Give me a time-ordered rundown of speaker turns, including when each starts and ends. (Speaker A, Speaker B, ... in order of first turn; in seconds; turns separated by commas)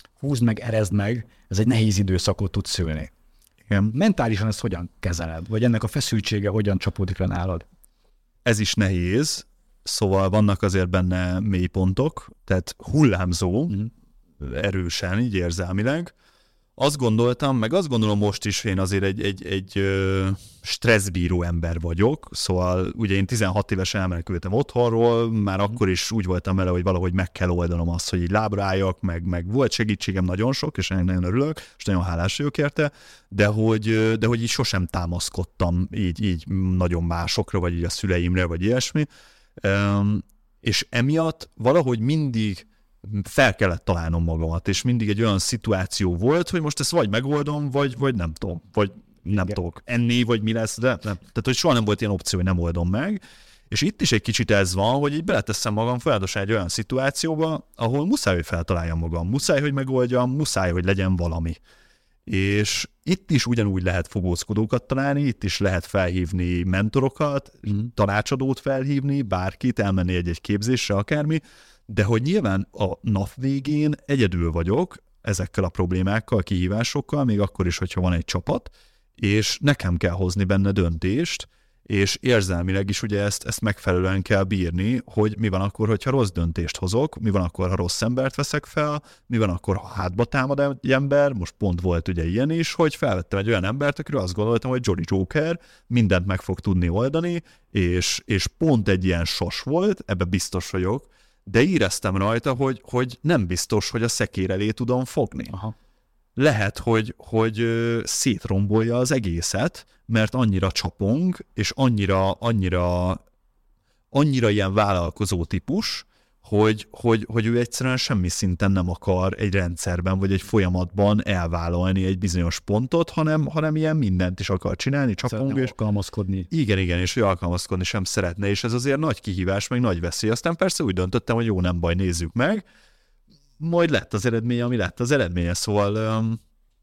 Speaker A: 0.2-3.1, Speaker B: 3.7-3.9, Speaker A: 3.9-7.7, Speaker B: 8.4-13.9, Speaker B: 14.4-16.1, Speaker B: 16.8-39.1, Speaker B: 39.6-61.6, Speaker B: 62.2-105.5, Speaker B: 106.3-113.2, Speaker B: 114.1-125.7, Speaker A: 125.2-126.5, Speaker B: 126.5-132.6, Speaker B: 133.6-136.4